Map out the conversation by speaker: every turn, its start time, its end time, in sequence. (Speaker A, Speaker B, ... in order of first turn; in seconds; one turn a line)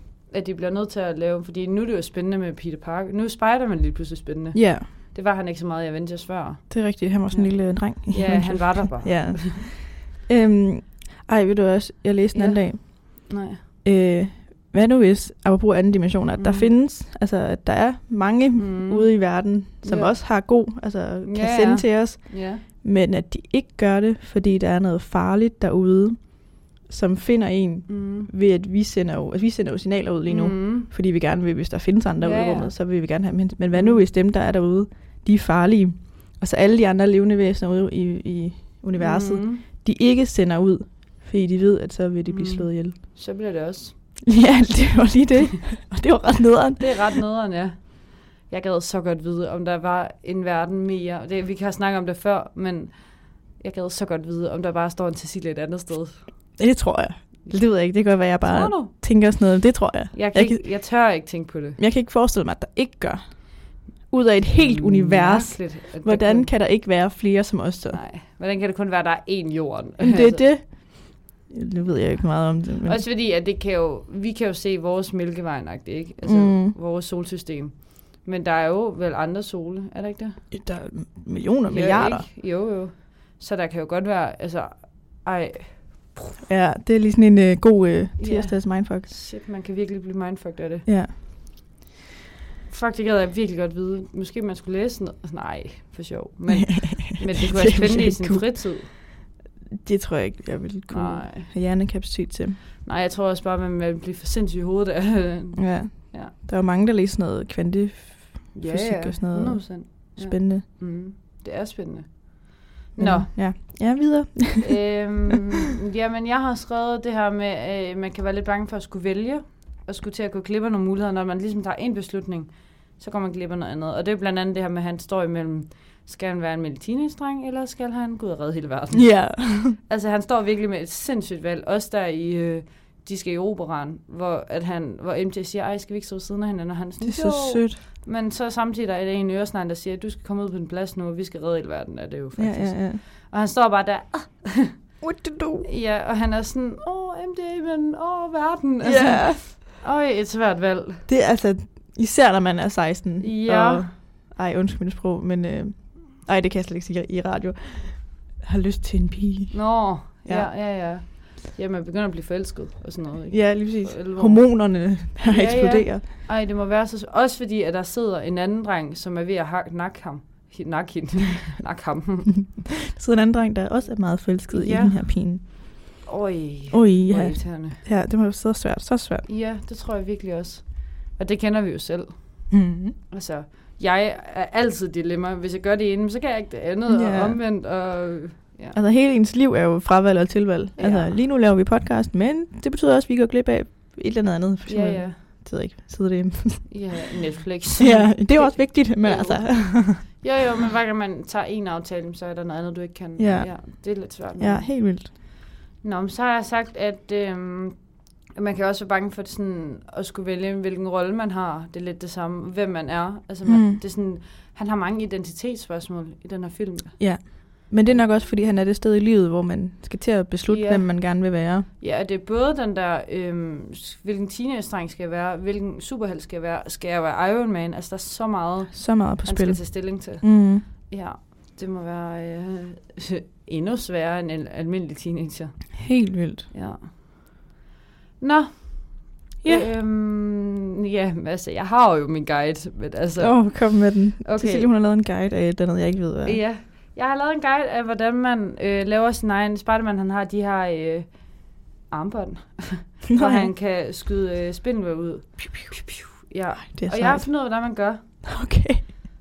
Speaker A: 0.3-9.6
Speaker B: 4.5-4.9
Speaker B: 6.7-13.3
Speaker A: 12.3-13.6
Speaker B: 13.8-43.0
Speaker A: 16.4-16.7
Speaker A: 18.6-20.2
Speaker A: 21.2-22.6
Speaker A: 27.9-28.3
Speaker A: 30.3-30.9
Speaker A: 32.2-32.7
Speaker A: 33.7-34.0
Speaker A: 39.0-39.6
Speaker A: 42.3-44.0
Speaker B: 44.3-47.2
Speaker A: 46.8-56.6
Speaker B: 56.6-60.7
Speaker A: 58.4-58.9
Speaker A: 60.1-61.8
Speaker B: 61.8-68.0
Speaker A: 64.5-66.5
Speaker A: 67.9-70.5
Speaker B: 70.0-73.0
Speaker A: 72.8-80.5
Speaker B: 76.2-76.8
Speaker B: 80.5-82.3
Speaker A: 81.7-86.4
Speaker B: 86.5-89.1
Speaker A: 88.2-90.9
Speaker B: 90.8-91.1
Speaker A: 92.7-98.9
Speaker B: 96.5-99.2
Speaker B: 99.8-102.6
Speaker A: 100.9-101.5
Speaker A: 102.8-106.3
Speaker B: 105.5-110.6
Speaker A: 108.5-113.3
Speaker B: 113.0-115.1
Speaker A: 114.6-144.9
Speaker B: 128.9-129.8
Speaker B: 137.0-137.8
Speaker B: 142.3-143.0
Speaker B: 145.0-145.7
Speaker A: 145.6-151.1
Speaker B: 148.8-149.4
Speaker B: 151.1-160.5
Speaker A: 153.2-153.9
Speaker A: 159.5-172.4
Speaker B: 163.3-166.0
Speaker B: 172.4-175.5
Speaker A: 174.5-177.8
Speaker B: 176.7-179.3
Speaker A: 179.3-182.6
Speaker B: 182.5-183.0
Speaker A: 183.1-188.8
Speaker B: 186.9-187.4
Speaker B: 188.7-197.0
Speaker A: 190.8-191.2
Speaker A: 194.7-195.2
Speaker A: 196.7-205.2
Speaker B: 197.8-200.2
Speaker B: 203.2-205.1
Speaker A: 205.8-217.3
Speaker B: 213.4-213.8
Speaker B: 217.0-221.7
Speaker A: 220.5-235.8
Speaker B: 228.7-230.7
Speaker B: 235.7-236.5
Speaker A: 236.5-236.9
Speaker A: 238.2-244.7
Speaker B: 239.4-239.7
Speaker B: 243.2-246.4
Speaker A: 246.2-258.2
Speaker B: 253.1-253.5
Speaker B: 256.6-257.4
Speaker B: 258.2-258.9